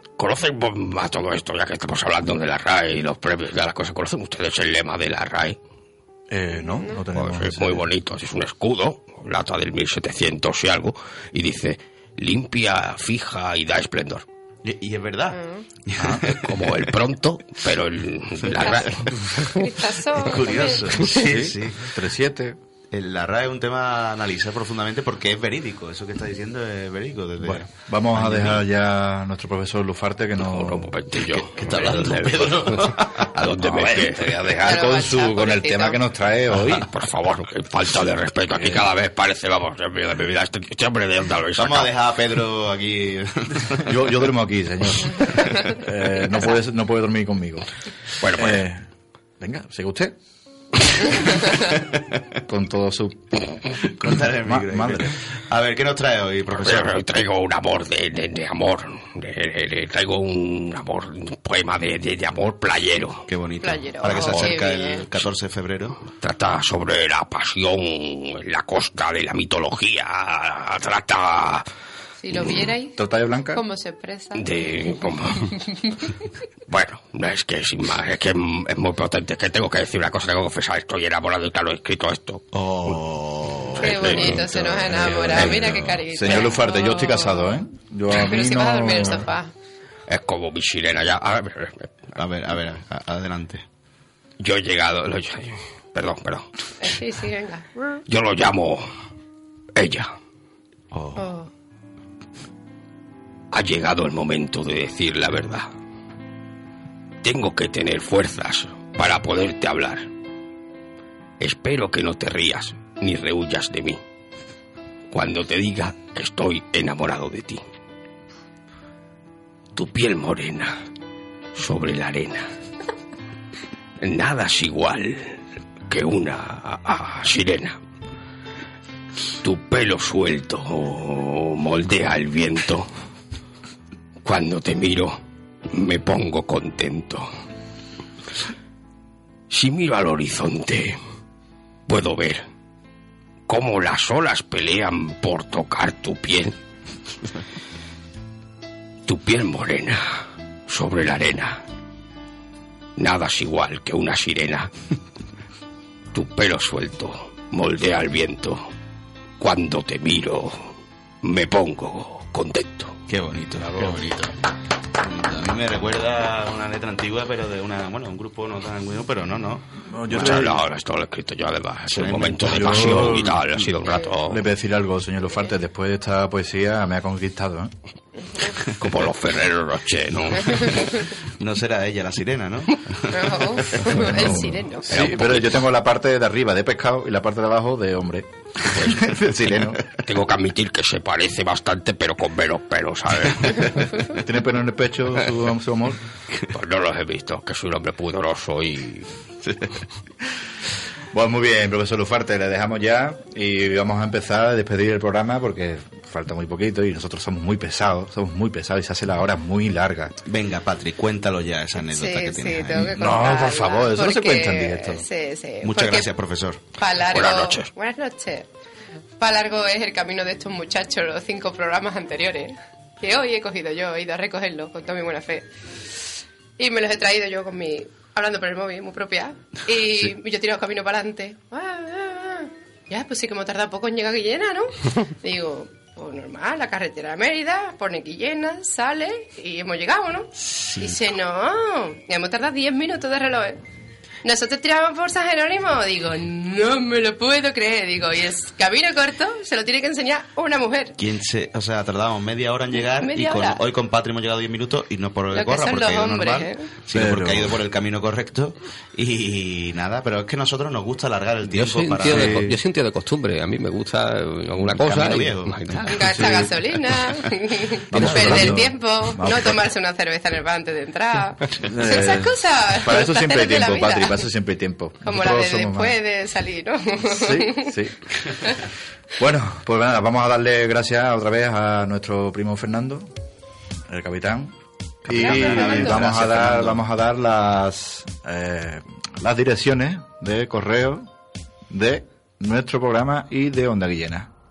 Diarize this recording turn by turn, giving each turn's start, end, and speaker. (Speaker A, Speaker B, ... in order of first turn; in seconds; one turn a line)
Speaker A: 0.2-5.6
Speaker B: 6.3-7.9
Speaker A: 7.1-14.2
Speaker C: 14.6-16.9
Speaker D: 15.4-15.6
Speaker B: 16.0-16.4
Speaker A: 16.4-19.1
Speaker C: 18.5-19.1
Speaker D: 19.6-21.0
Speaker C: 20.1-21.9
Speaker B: 21.0-22.6
Speaker C: 22.9-28.6
Speaker B: 27.4-32.2
Speaker A: 30.4-34.8
Speaker C: 31.4-33.3
Speaker B: 33.4-36.9
Speaker D: 34.6-36.0
Speaker A: 36.6-41.9
Speaker B: 38.6-38.9
Speaker C: 41.6-44.1
Speaker B: 43.8-47.7
Speaker A: 48.2-48.6
Speaker B: 48.3-48.9
Speaker B: 49.4-50.1
Speaker B: 52.5-53.4
Speaker C: 53.8-57.0
Speaker B: 54.4-55.1
Speaker A: 56.5-63.3
Speaker C: 63.3-66.0
Speaker D: 63.6-65.1
Speaker A: 64.1-64.5
Speaker A: 66.1-71.7
Speaker D: 72.2-73.0
Speaker B: 73.0-73.6
Speaker D: 73.5-75.5
Speaker A: 74.3-75.6
Speaker A: 76.7-82.9
Speaker C: 82.5-85.8
Speaker A: 83.8-84.8
Speaker D: 83.8-89.5
Speaker B: 85.0-89.3
Speaker A: 90.1-91.9
Speaker C: 92.2-93.6
Speaker A: 94.4-96.5
Speaker D: 96.8-97.7
Speaker A: 98.1-98.9
Speaker A: 99.8-100.1
Speaker C: 100.9-101.2
Speaker D: 101.2-101.5
Speaker A: 103.5-105.7
Speaker A: 107.2-110.1
Speaker A: 111.4-114.0
Speaker A: 115.1-117.6
Speaker A: 119.8-120.7
Speaker A: 121.5-122.5
Speaker A: 124.0-127.8
Speaker A: 129.4-132.9
Speaker A: 134.2-137.3
Speaker A: 139.5-141.0
Speaker A: 141.9-142.4
Speaker A: 143.5-146.6
Speaker A: 149.1-151.6
Speaker A: 153.0-154.7
Speaker A: 156.1-158.7
Speaker A: 159.4-160.7
Speaker A: 161.2-163.0
Speaker C: 163.1-164.3
Speaker C: 165.0-170.4
Speaker B: 169.8-170.6
Speaker A: 170.1-174.4
Speaker C: 171.9-173.2
Speaker B: 172.4-177.7
Speaker A: 178.8-180.8
Speaker C: 181.4-183.6
Speaker D: 183.1-184.9
Speaker B: 184.0-189.8
Speaker A: 184.9-185.7
Speaker A: 190.0-193.8
Speaker B: 194.1-196.0
Speaker A: 196.5-199.1
Speaker C: 199.4-199.8
Speaker B: 201.1-210.2
Speaker C: 210.2-213.1
Speaker D: 211.9-216.1
Speaker B: 212.8-215.1
Speaker C: 215.6-216.6
Speaker D: 216.8-218.5
Speaker A: 217.1-217.7
Speaker D: 219.2-225.5
Speaker D: 226.6-243.6
Speaker C: 240.4-241.0
Speaker D: 244.2-251.0
Speaker C: 251.0-262.4
Speaker D: 252.8-253.6
Speaker D: 255.3-256.7
Speaker B: 256.9-257.6
Speaker E: 261.4-266.0
Speaker B: 262.1-262.6
Speaker C: 264.7-266.3
Speaker D: 265.9-274.3
Speaker B: 266.1-266.5
Speaker B: 267.9-269.7
Speaker E: 267.9-268.6
Speaker B: 271.6-275.9
Speaker D: 275.1-277.8
Speaker B: 277.1-278.0
Speaker B: 279.2-283.1
Speaker B: 283.9-284.5
Speaker B: 285.1-291.1
Speaker C: 285.1-286.8
Speaker D: 285.1-286.1
Speaker B: 291.7-294.3